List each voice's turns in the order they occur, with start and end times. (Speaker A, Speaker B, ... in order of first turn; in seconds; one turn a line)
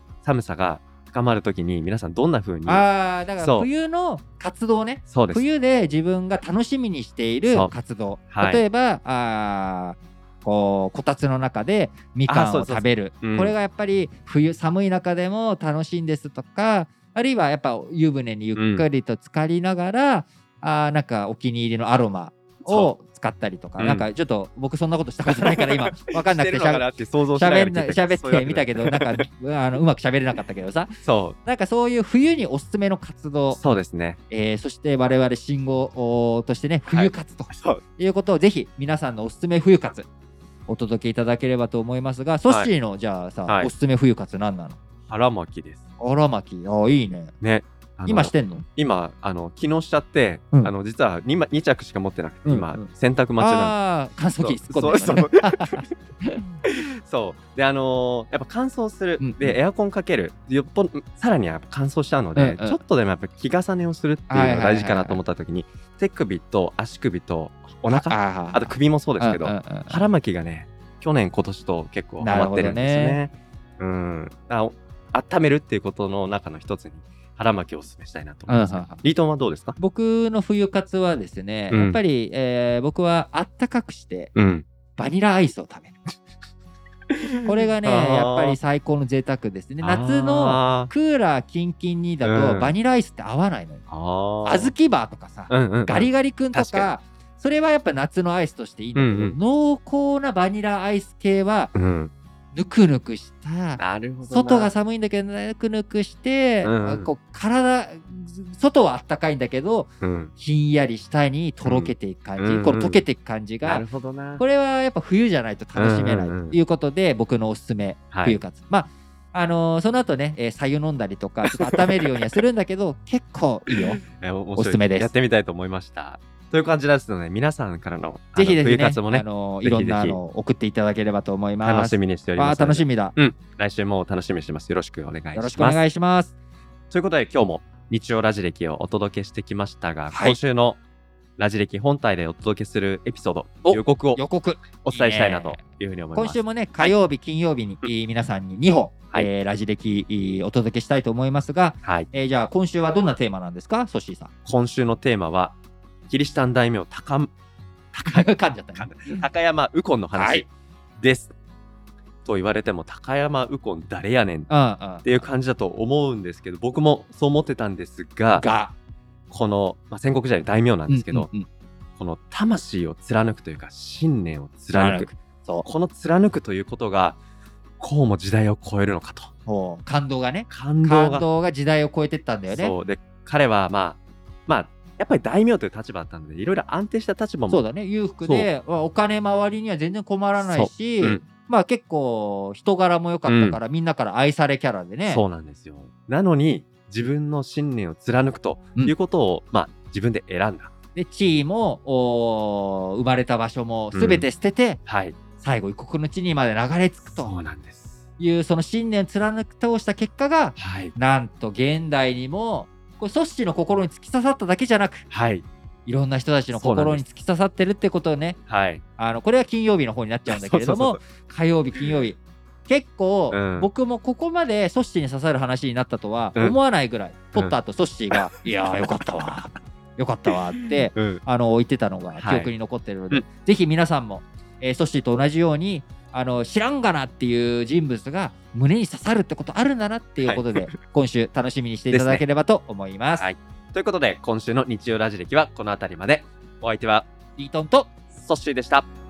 Speaker A: 0.2-3.7
Speaker B: 2.6-33.6
Speaker A: 5.1-5.4
Speaker A: 8.3-8.6
Speaker A: 12.3-13.5
Speaker A: 18.6-18.9
Speaker A: 23.8-24.1
Speaker A: 25.2-29.3
Speaker A: 31.0-31.4
Speaker A: 33.5-34.2
Speaker B: 34.3-40.0
Speaker A: 36.9-37.8
Speaker B: 40.7-44.8
Speaker A: 45.1-45.8
Speaker B: 46.0-47.3
Speaker A: 47.4-53.8
Speaker B: 48.1-48.6
Speaker B: 52.4-52.9
Speaker B: 53.4-56.5
Speaker A: 54.4-55.9
Speaker A: 56.6-79.8
Speaker B: 59.2-59.6
Speaker B: 62.4-62.8
Speaker B: 64.3-65.2
Speaker B: 67.9-70.0
Speaker B: 72.2-73.2
Speaker B: 78.5-79.0
Speaker B: 79.8-84.3
Speaker A: 81.7-82.0
Speaker A: 84.3-84.6
Speaker B: 85.0-86.1
Speaker A: 87.2-88.6
Speaker B: 87.4-93.8
Speaker A: 89.8-90.9
Speaker A: 92.2-92.7
Speaker A: 93.9-94.7
Speaker B: 94.4-101.7
Speaker A: 95.5-96.9
Speaker A: 99.0-99.3
Speaker A: 101.7-102.1
Speaker B: 102.5-113.8
Speaker A: 103.8-104.7
Speaker A: 106.6-107.1
Speaker A: 110.0-110.3
Speaker A: 111.6-113.0
Speaker A: 113.6-114.4
Speaker B: 114.4-124.0
Speaker A: 115.8-116.6
Speaker A: 118.1-118.4
Speaker A: 123.7-130.2
Speaker B: 124.5-125.1
Speaker B: 128.3-133.2
Speaker A: 131.6-135.8
Speaker B: 135.3-136.3
Speaker A: 136.9-140.8
Speaker B: 140.1-140.4
Speaker A: 141.4-144.2
Speaker B: 143.7-145.6
Speaker A: 144.8-146.9
Speaker B: 146.1-154.3
Speaker A: 154.4-155.6
Speaker A: 156.1-157.3
Speaker A: 157.9-160.5
Speaker B: 158.1-159.2
Speaker B: 160.1-160.4
Speaker A: 161.0-161.3
Speaker A: 162.2-168.4
Speaker B: 164.5-165.3
Speaker B: 168.3-168.7
Speaker A: 169.3-171.3
Speaker B: 170.9-171.5
Speaker A: 172.0-175.1
Speaker B: 174.7-175.7
Speaker A: 175.6-177.2
Speaker A: 177.8-179.3
Speaker B: 179.4-182.7
Speaker A: 180.5-181.2
Speaker A: 182.5-187.6
Speaker B: 187.5-195.2
Speaker A: 188.2-188.5
Speaker A: 190.4-191.2
Speaker A: 193.3-193.6
Speaker A: 195.1-200.7
Speaker B: 200.9-204.8
Speaker A: 203.9-204.3
Speaker A: 204.8-205.2
Speaker B: 205.4-207.3
Speaker A: 207.1-208.0
Speaker B: 208.2-215.1
Speaker A: 210.6-210.9
Speaker A: 215.1-215.4
Speaker B: 215.8-218.4
Speaker A: 216.5-217.0
Speaker A: 218.5-218.8
Speaker B: 219.0-243.3
Speaker A: 220.2-221.0
Speaker A: 223.3-223.7
Speaker A: 230.3-231.2
Speaker A: 232.2-232.5
Speaker A: 240.2-240.8
Speaker A: 241.9-242.2
Speaker A: 243.2-247.1
Speaker B: 247.4-247.9
Speaker A: 248.1-248.9